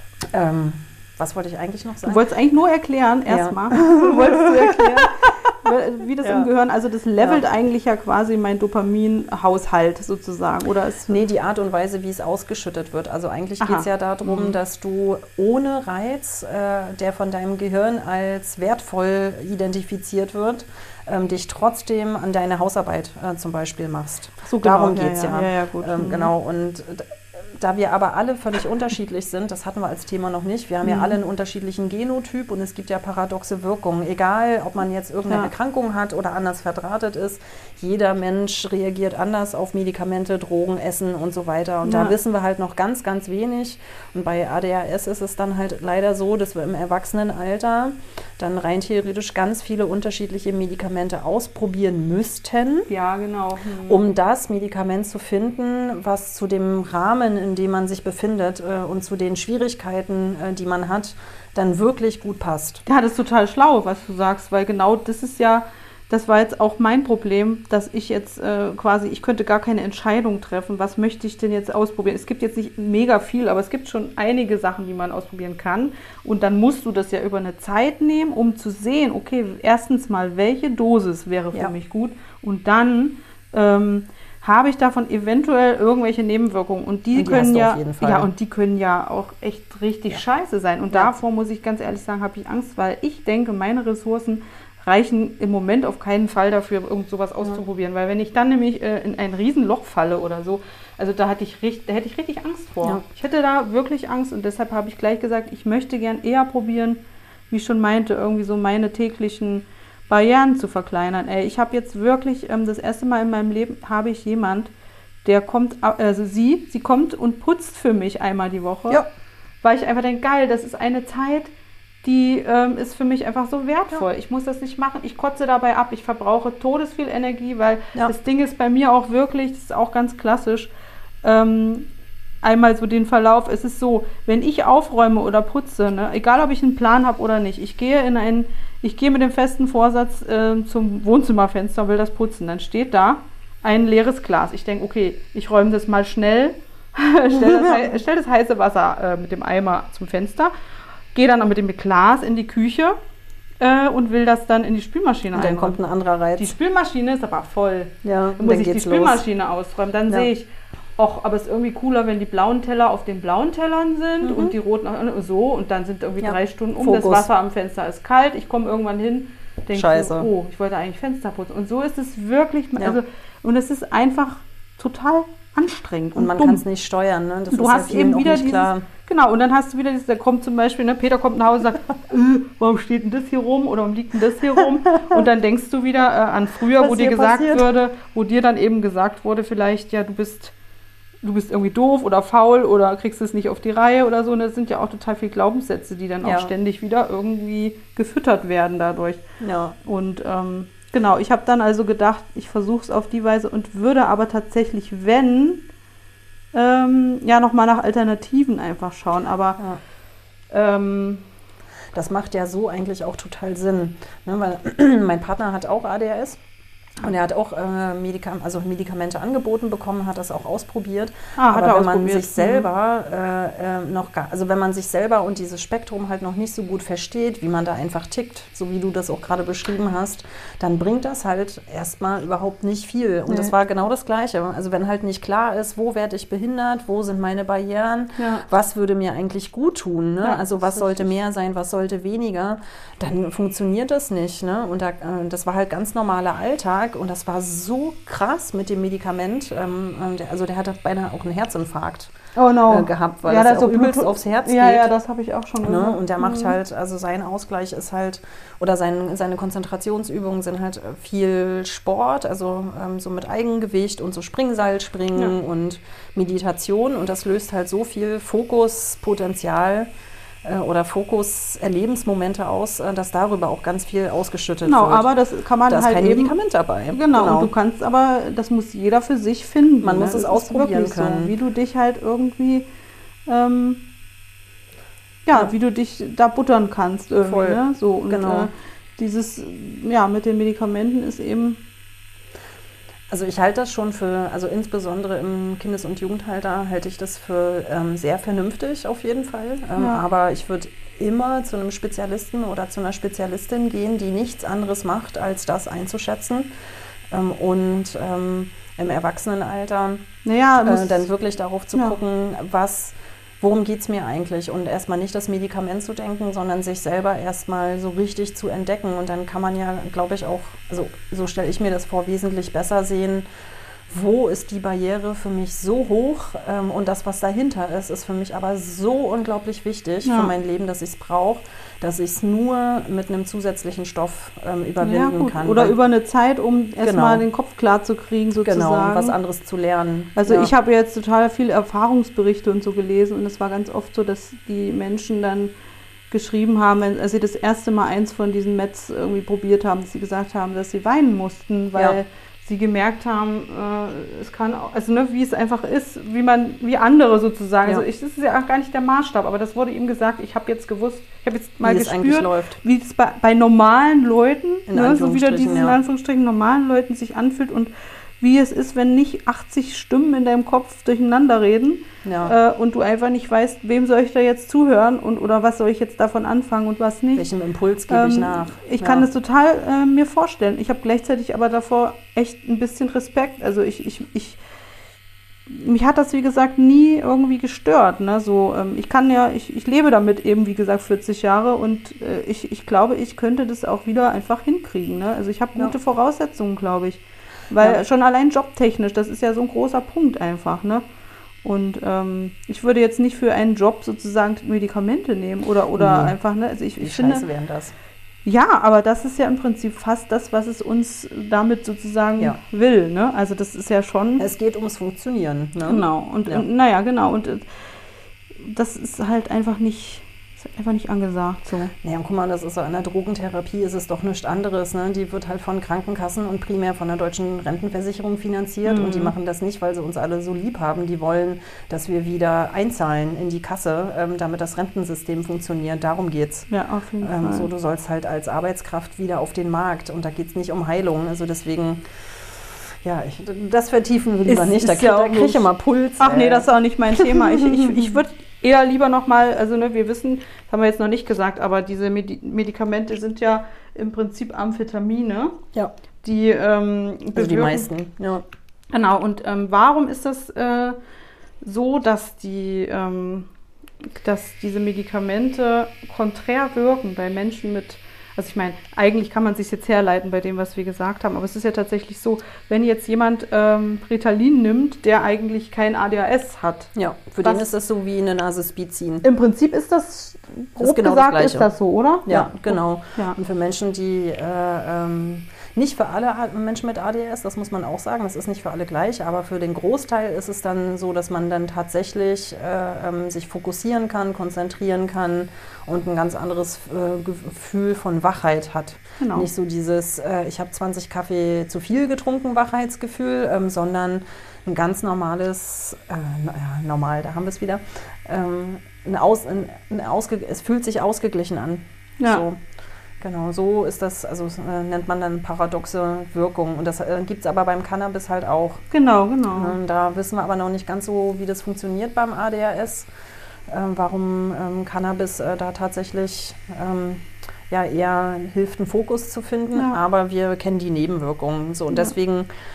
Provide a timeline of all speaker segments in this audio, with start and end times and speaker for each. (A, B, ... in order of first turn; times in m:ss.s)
0:00.3-0:02.3 A
0:02.0-0:11.1 B
0:03.3-0:05.3 A
0:06.2-0:06.5 A
0:11.1-0:52.9 A
0:13.6-0:14.6 B
0:24.4-0:26.3 B
0:30.8-0:31.1 B
0:41.8-0:42.2 B
0:52.9-0:54.0 B
0:53.9-1:02.8 A
1:02.9-1:54.7 B
1:27.1-1:28.3 A
1:55.2-1:59.0 B
1:59.6-2:01.5 B
2:02.0-2:10.7 B
2:11.2-2:11.9 B
2:12.4-2:30.5 B
2:31.1-2:33.0 B
2:33.6-2:35.8 B
2:35.3-2:36.5 A
2:36.4-2:56.6 B
2:38.0-2:39.2 A
2:44.2-2:44.6 A
2:46.2-2:47.3 A
2:49.7-2:50.3 A
2:56.2-2:58.9 A
2:57.5-3:10.5 B
3:06.8-3:07.7 A
3:11.2-3:19.2 B
3:16.2-3:16.5 A
3:19.4-3:19.8 A
3:19.8-3:25.6 B
3:26.5-3:29.6 B
3:30.5-3:31.2 B
3:31.9-3:36.4 A
3:37.0-4:12.1 A
3:41.4-3:42.7 B
3:53.3-3:53.5 B
3:58.2-3:58.4 B
4:00.2-4:01.1 B
4:12.4-4:16.6 B
4:12.7-4:14.9 A
4:15.6-4:29.9 A
4:30.4-4:35.1 A
4:34.6-4:36.4 B
4:35.7-4:37.5 A
4:36.9-4:42.7 B
4:39.8-4:41.3 A
4:43.3-4:43.8 B
4:45.3-4:51.6 B
4:47.3-4:48.5 A
4:53.1-5:06.5 A
4:59.8-5:00.0 B
5:07.1-5:10.0 A
5:10.2-5:11.1 B
5:10.6-5:23.2 A
5:23.9-5:35.8 A
5:30.0-5:30.3 B
5:34.8-5:39.2 B
5:36.8-5:37.2 A
5:38.4-5:40.5 A
5:40.2-5:45.5 B
5:46.1-6:17.3 B
6:01.6-6:02.6 A
6:04.7-6:05.8 A
6:12.0-6:12.3 A
6:17.2-6:19.1 A
6:17.9-6:24.4 B
6:25.5-6:40.8 B
6:41.4-6:47.3 B
6:45.8-6:46.1 A
6:46.8-6:47.8 A
6:48.2-6:54.3 B
6:54.2-6:56.4 A
6:55.7-6:57.5 B
6:58.4-7:01.7 B
7:01.8-7:16.5 A
7:08.6-7:09.1 B
7:16.5-7:17.5 B
7:17.0-7:28.0 A
7:24.3-7:25.4 B
7:26.0-7:35.4 B
7:36.0-7:37.7 B
7:37.2-7:38.2 A
7:38.7-7:40.8 B
7:41.4-7:43.3 B
7:44.0-7:57.5 B
7:56.8-7:59.0 A
7:59.0-8:03.2 B
8:00.6-8:01.5 A
8:02.1-8:32.4 A
8:19.0-8:19.3 B
8:32.0-8:32.2 B
8:33.0-8:38.6 A
8:38.7-8:39.6 B
8:39.3-8:42.9 A
8:43.5-8:52.3 A